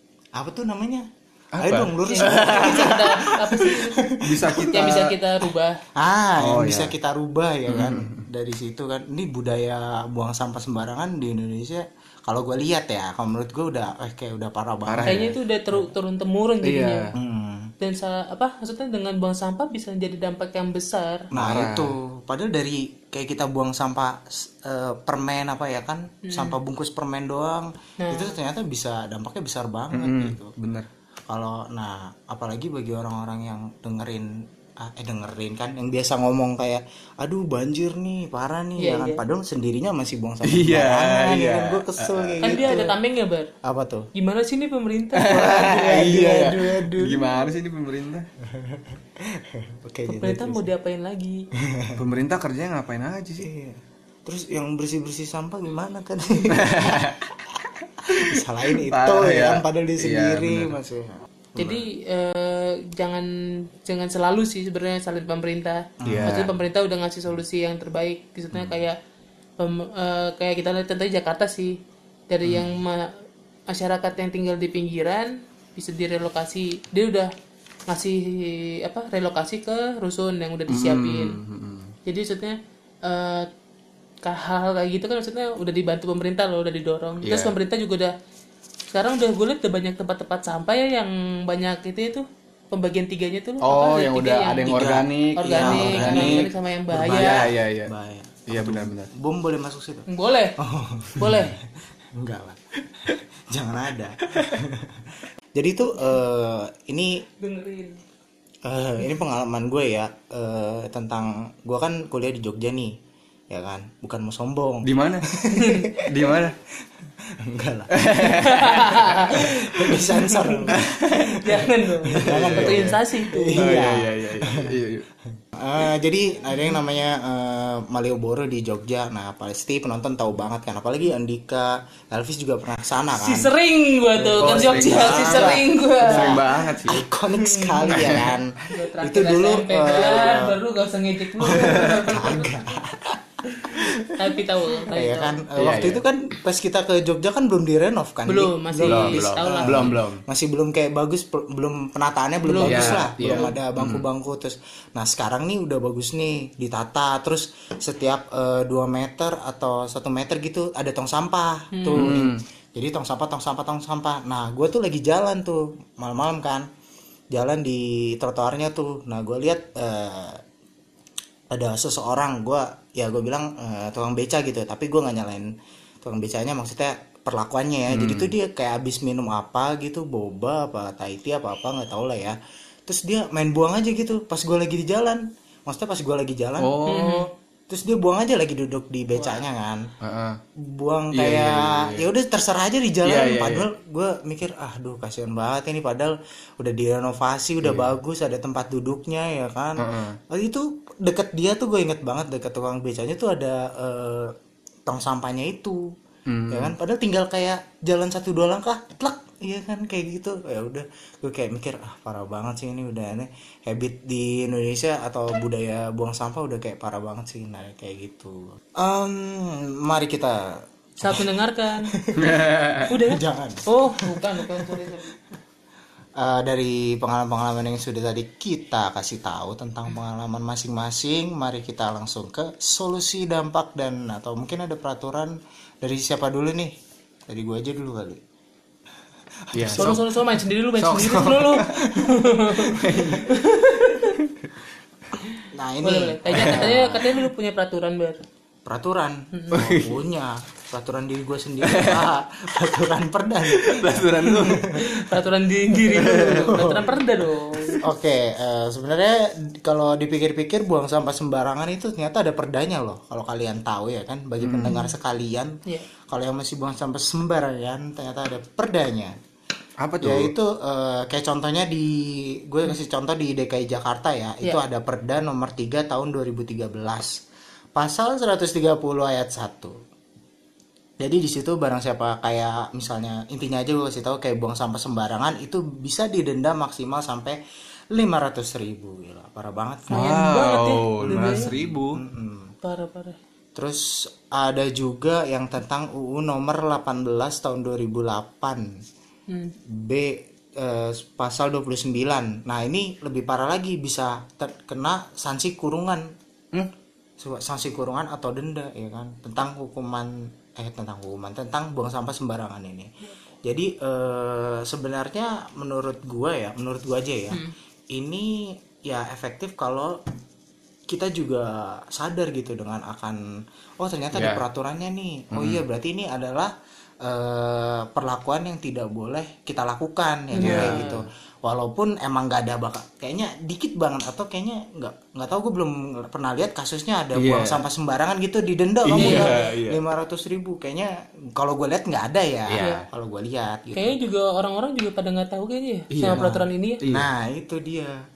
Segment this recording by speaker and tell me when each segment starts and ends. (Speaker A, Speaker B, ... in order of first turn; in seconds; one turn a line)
Speaker A: 0.3-1.1
Speaker B: 1.5-3.3
Speaker A: 1.6-4.9
Speaker C: 2.1-4.1
Speaker B: 4.2-5.1
Speaker C: 4.7-5.8
Speaker A: 5.9-15.3
Speaker B: 6.4-6.9
Speaker B: 7.7-8.2
Speaker B: 14.9-15.3
Speaker C: 15.0-17.1
Speaker B: 16.6-17.1
Speaker A: 17.1-17.7
Speaker C: 17.8-21.3
Speaker A: 21.3-30.5
Speaker B: 21.3-21.9
Speaker C: 26.2-26.6
Speaker C: 28.0-28.4
Speaker B: 29.9-30.9
Speaker A: 31.3-42.9
Speaker C: 38.8-39.2
Speaker B: 40.4-42.6
Speaker C: 42.4-43.5
Speaker A: 43.6-44.1
Speaker C: 44.1-45.5
Speaker B: 45.2-48.3
Speaker A: 45.2-47.3
Speaker A: 48.4-50.7
Speaker C: 50.0-51.5
Speaker A: 51.5-52.0
Speaker B: 52.0-53.5
Speaker A: 53.4-57.1
Speaker B: 56.5-57.3
Speaker B: 57.8-60.7
Speaker A: 58.1-61.8
Speaker C: 61.6-69.0
Speaker A: 66.0-66.3
Speaker B: 66.0-66.5
Speaker C: 69.6-71.8
Speaker C: 72.3-77.3
Speaker A: 72.4-72.7
Speaker C: 77.9-81.4
Speaker B: 80.7-81.9
Speaker C: 82.0-83.5
Speaker C: 84.2-88.1
Speaker B: 87.2-87.5
Speaker C: 88.9-94.8
Speaker B: 93.6-97.9
Speaker A: 94.6-107.2
Speaker C: 95.3-97.5
Speaker B: 98.5-99.1
Speaker C: 100.1-100.6
Speaker C: 101.2-101.5
Speaker B: 104.3-104.6
Speaker C: 107.4-108.0
Speaker A: 108.6-112.9
Speaker A: 113.5-124.8
Speaker B: 114.8-115.3
Speaker C: 115.5-115.9
Speaker B: 116.0-116.5
Speaker B: 117.9-119.1
Speaker C: 118.2-123.8
Speaker B: 120.7-121.4
Speaker B: 122.1-122.9
Speaker B: 123.5-125.0
Speaker A: 125.5-133.5
Speaker C: 133.1-136.4
Speaker A: 134.1-140.6
Speaker B: 134.4-137.1
Speaker C: 137.4-142.5
Speaker B: 137.9-138.3
Speaker A: 141.4-144.2
Speaker B: 141.5-141.9
Speaker C: 143.6-145.4
Speaker A: 144.9-166.7
Speaker B: 145.6-146.0
Speaker C: 148.3-150.0
Speaker B: 148.8-150.2
Speaker C: 152.4-153.5
Speaker B: 152.6-154.0
Speaker C: 161.7-162.1
Speaker B: 161.9-162.4
Speaker A: 167.3-170.4
Speaker A: 171.5-186.9
Speaker B: 177.9-178.3
Speaker B: 186.6-187.3
Speaker C: 186.8-187.3
Speaker A: 187.7-189.9
Speaker B: 190.0-190.4
Speaker A: 190.6-204.3
Speaker B: 191.1-192.0
Speaker B: 193.0-193.7
Speaker B: 197.6-197.9
Speaker B: 199.8-200.2
Speaker A: 204.9-205.9
Speaker B: 206.3-206.7
Speaker A: 206.5-225.0
Speaker C: 221.0-221.9
Speaker B: 222.2-222.9
Speaker C: 222.9-225.2
Speaker A: 226.2-236.7
Speaker A: 237.3-238.2
Speaker A: 239.4-240.0
Speaker B: 239.5-240.0
Speaker C: 239.8-244.2
Speaker B: 240.8-241.8
Speaker A: 241.7-242.2
Speaker B: 242.6-243.3
Speaker C: 245.2-248.2
Speaker A: 245.5-247.2
Speaker B: 246.3-246.7
Speaker A: 248.7-255.2
Speaker C: 249.3-249.6
Speaker B: 249.5-250.0
Speaker B: 251.6-252.1
Speaker B: 253.5-254.7
Speaker C: 254.7-257.8
Speaker A: 255.8-257.0
Speaker B: 255.9-256.6
Speaker A: 257.8-265.6
Speaker B: 264.4-264.8
Speaker C: 264.6-264.9
Speaker A: 266.1-269.1
Speaker B: 269.8-270.3
Speaker A: 270.0-277.2
Speaker A: 277.8-279.8
Speaker A: 281.0-287.4
Speaker A: 287.9-290.1
Speaker C: 289.9-291.5
Speaker B: 289.9-292.0
Speaker A: 291.0-292.5
Speaker C: 292.6-293.2
Speaker A: 293.5-298.8
Speaker C: 299.3-299.5
Speaker A: 299.6-306.1
Speaker A: 307.2-312.9
Speaker A: 313.4-320.0
Speaker A: 320.9-323.2
Speaker A: 323.8-326.5
Speaker B: 324.1-324.4
Speaker B: 325.3-325.6
Speaker A: 327.0-344.0
Speaker C: 330.3-331.0
Speaker B: 330.4-331.0
Speaker B: 337.1-337.6
Speaker B: 338.8-339.8
Speaker C: 339.0-339.5
Speaker B: 342.5-342.8
Speaker C: 343.7-346.8
Speaker B: 345.9-347.1
Speaker A: 346.1-347.9